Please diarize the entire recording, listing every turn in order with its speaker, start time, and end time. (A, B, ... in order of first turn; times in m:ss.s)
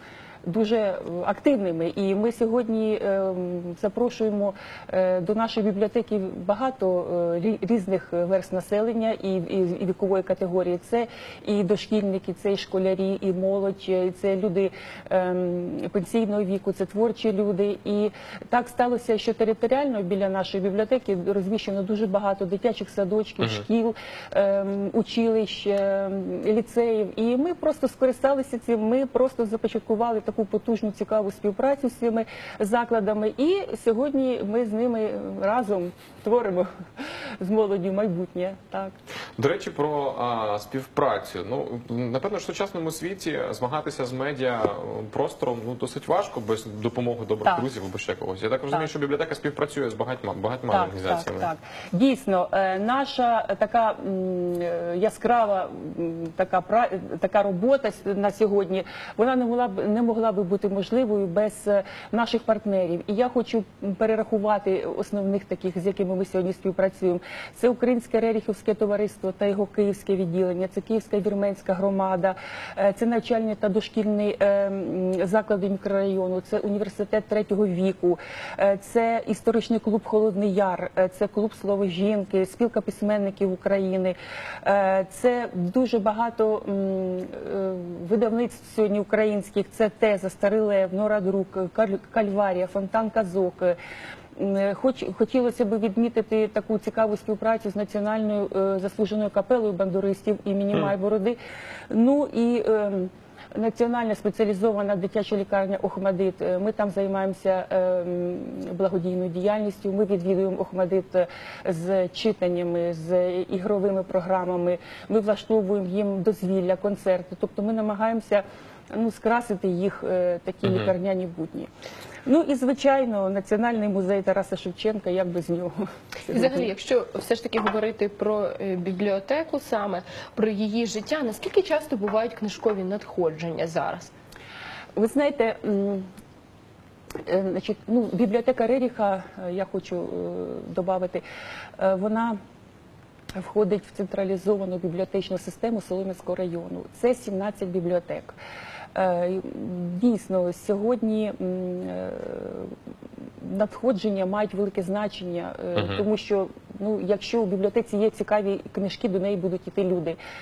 0:00.4-0:38.9 A
0:23.4-0:23.6 B
0:39.4-0:51.5 B
0:50.7-1:33.8 A
1:34.4-2:01.7 A
2:00.6-2:00.9 B
2:02.2-2:05.7 A
2:06.2-2:06.7 A
2:06.3-2:14.1 C
2:15.0-2:16.1 A
2:17.2-2:21.2 A
2:21.8-2:22.4 A
2:23.3-2:28.4 A
2:28.9-2:32.7 A
2:33.4-2:40.2 A
2:35.8-2:36.0 B